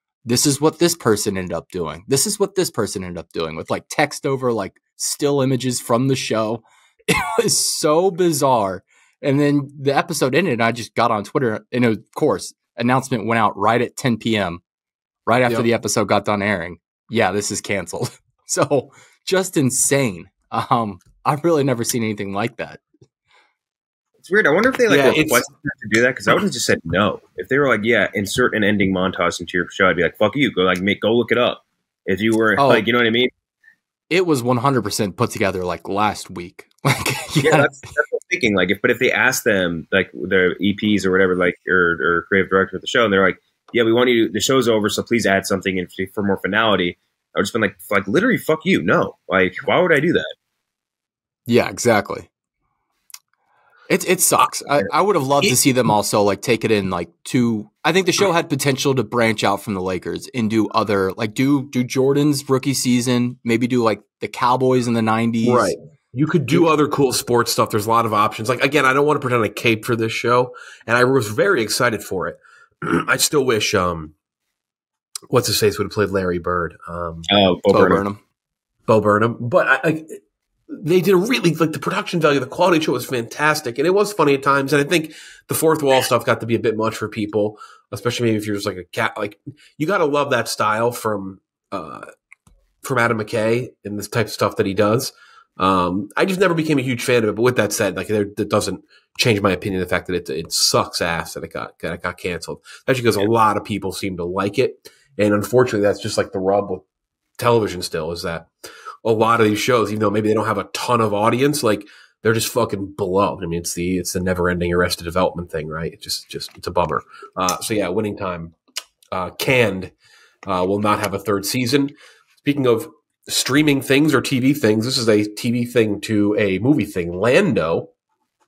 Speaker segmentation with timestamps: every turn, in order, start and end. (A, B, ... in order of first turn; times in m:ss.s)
0:00.2-0:14.6 A
0:15.2-0:22.8 A
0:24.2-0:33.3 B
0:24.9-0:25.4 C
0:32.6-0:32.8 A
0:34.1-0:37.7 A
0:37.4-0:50.3 B
0:51.5-0:52.3 A
0:53.9-1:05.7 A
0:54.4-0:54.7 C
1:05.4-1:14.1 C
1:15.3-1:17.3 C
1:17.3-1:18.0 B
1:17.7-1:18.2 A
1:18.9-1:32.1 C
1:32.8-1:46.8 C
1:47.4-1:48.5 C
1:49.0-1:58.5 C
1:59.1-1:59.9 C
2:00.5-2:07.9 C